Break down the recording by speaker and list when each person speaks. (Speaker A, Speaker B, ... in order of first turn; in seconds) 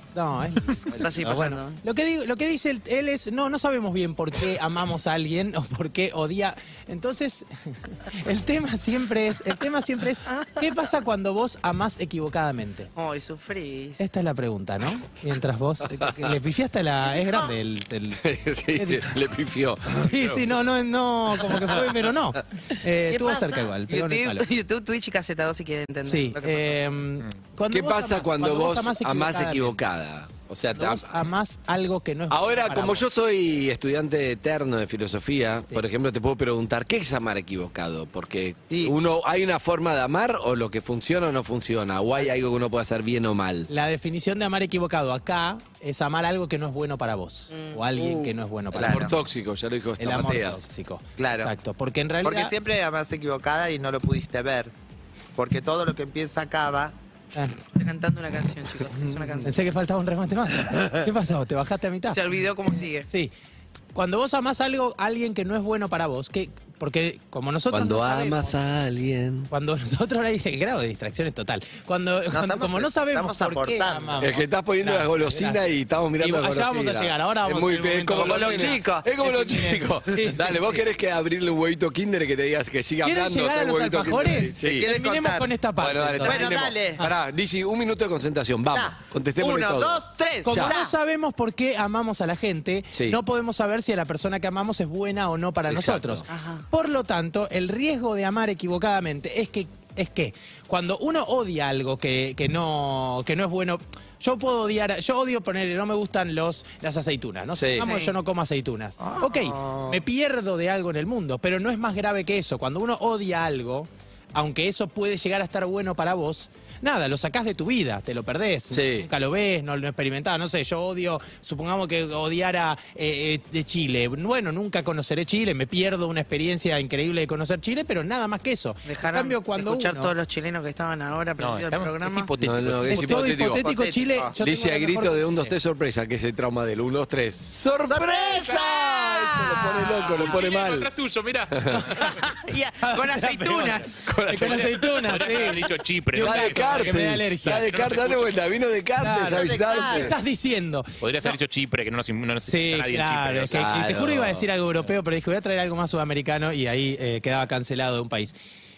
Speaker A: 0.1-12.9, 14.0-19.1, 19.9-24.5, 26.0-29.8, 30.7-33.0, 43.7-49.2, 50.0-52.5, 59.4-62.3, 63.0-63.3, 63.9-68.5, 69.5-80.8, 83.0-87.1, 90.4-130.1, 132.9-135.5, 141.7-147.7, 149.0-150.9, 152.4-158.3
Speaker B: 0.9-1.8, 10.3-10.6, 12.9-14.0, 23.9-26.8, 47.5-47.8, 57.7-59.7, 62.1-63.1, 96.3-96.6, 107.8-108.1, 128.8-132.3, 142.3-144.1
Speaker C: 15.9-16.4, 18.2-20.1, 27.7-31.2, 32.3-43.7, 48.0-50.6, 67.7-69.5, 74.2-84.9, 85.8-90.8, 92.9-93.2, 95.7-96.2, 107.5-107.9, 118.7-119.1, 132.4-133.7, 134.4-140.9, 141.5-141.9, 144.0-145.5, 146.2-150.2, 153.5-154.5
Speaker D: 23.1-23.7, 48.7-49.1, 51.2-51.5, 52.2-54.7, 55.4-56.9, 58.9-59.5, 72.3-74.3, 78.1-80.6, 84.6-85.5, 86.2-87.0, 88.7-90.9, 109.0-110.0, 133.2-134.3, 137.9-139.8, 149.3-150.2
Speaker E: 131.4-133.1, 139.6-142.2, 144.5-148.3, 151.0-153.6